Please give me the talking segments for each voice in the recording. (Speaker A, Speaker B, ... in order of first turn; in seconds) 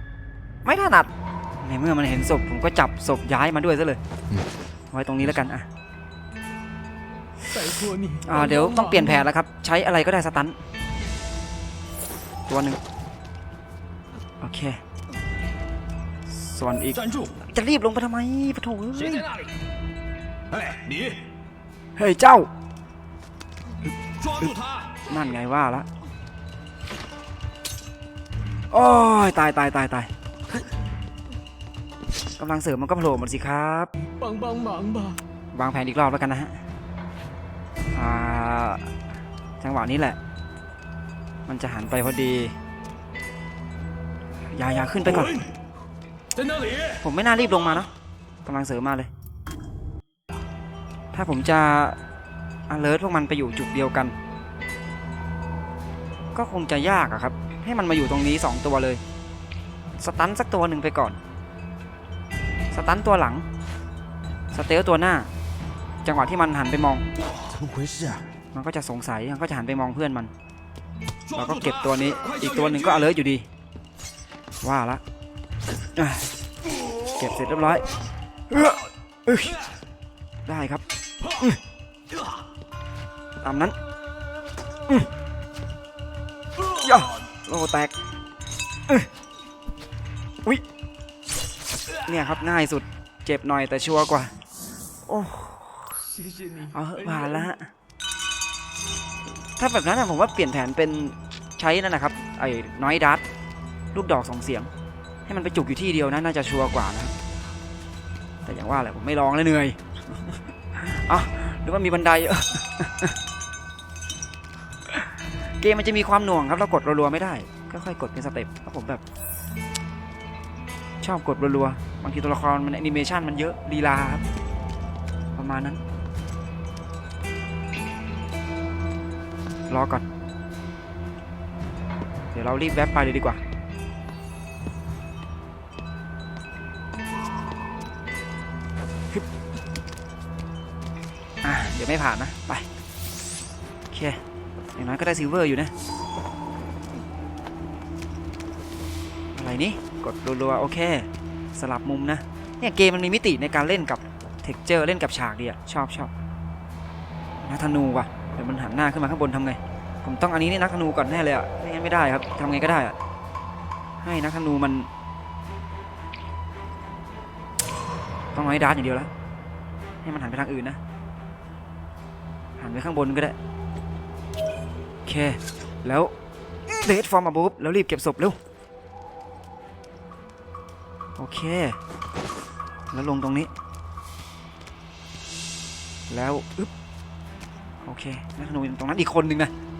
Speaker A: 0.6-1.1, 1.6-4.0, 4.9-5.7, 8.2-10.6, 12.5-12.8, 14.4-14.8, 16.3-19.2, 22.0-22.5, 23.9-24.5, 25.1-25.9, 28.7-30.1, 32.4-33.9, 35.5-36.6, 37.9-38.9, 39.6-40.2, 41.5-42.5, 44.5-45.3, 47.0-47.9, 48.4-49.1, 51.1-52.0, 52.7-54.1, 56.3-59.0, 60.0-61.2, 62.7-63.5, 64.5-65.3, 66.0-67.0, 68.5-70.3, 71.3-73.5, 74.6-75.0, 76.0-76.2, 77.2-77.9, 78.5-79.5, 80.5-80.8, 83.4-83.8, 86.8-87.9, 92.0-94.3, 95.1-96.0, 96.7-97.7, 99.6-103.2, 103.9-104.7, 105.2-107.1, 108.4-113.2, 114.9-119.0, 121.0-124.2, 125.3-125.8, 129.7-130.0, 132.3-133.4, 141.4-142.6, 143.9-144.2, 144.8-145.7, 149.3-156.1, 157.4-162.9, 164.0-164.9, 168.3-169.1, 170.0-170.8, 172.6-173.3, 175.0-176.1, 176.7-178.4, 181.2-181.8, 182.9-183.5, 186.1-186.7, 187.8-189.5
Speaker B: 7.5-9.3, 34.1-35.2, 96.0-97.5
Speaker C: 16.9-17.4, 18.9-19.5, 20.5-21.2, 24.2-25.4, 45.0-45.5, 46.3-47.9, 67.2-68.1, 71.3-73.1